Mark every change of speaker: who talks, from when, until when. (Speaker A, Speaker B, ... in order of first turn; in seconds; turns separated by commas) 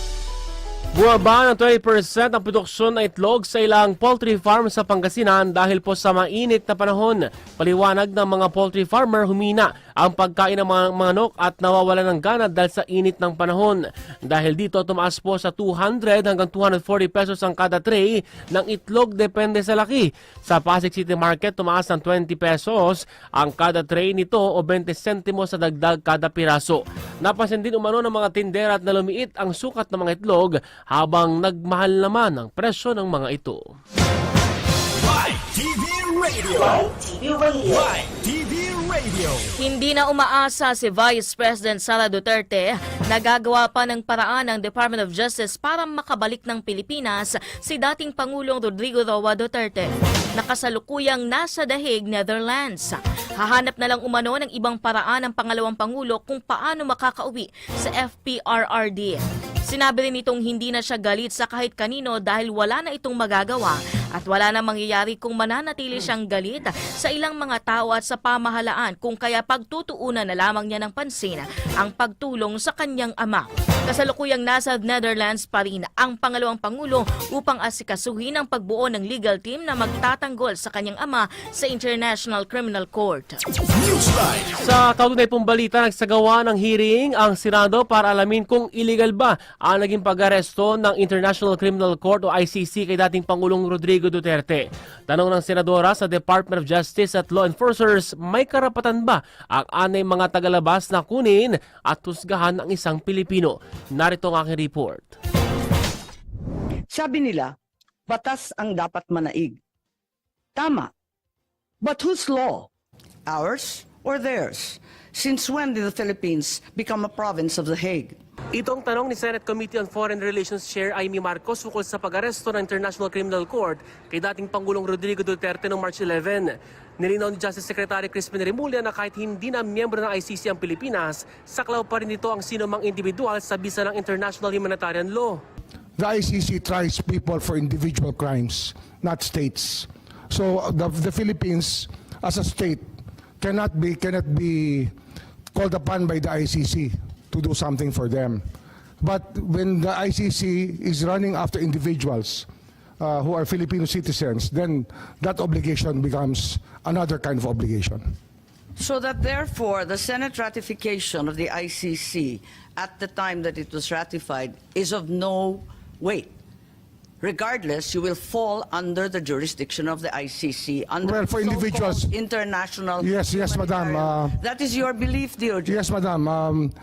Speaker A: 0.9-33.6, Speaker B: 35.0-39.5, Speaker C: 39.6-83.4, Speaker B: 83.7-84.5, Speaker A: 84.6-105.1, Speaker D: 106.9-107.5, Speaker D: 108.1-109.6, Speaker D: 110.5-110.9, Speaker D: 111.8-112.7, Speaker D: 113.3-118.2, Speaker A: 118.5-135.4, Speaker E: 136.0-144.9, Speaker E: 145.5-152.5, Speaker E: 153.0-158.1, Speaker D: 158.8-166.3, Speaker D: 167.2-175.8, Speaker E: 171.0-172.1, Speaker E: 173.0-174.4, Speaker E: 175.6-176.7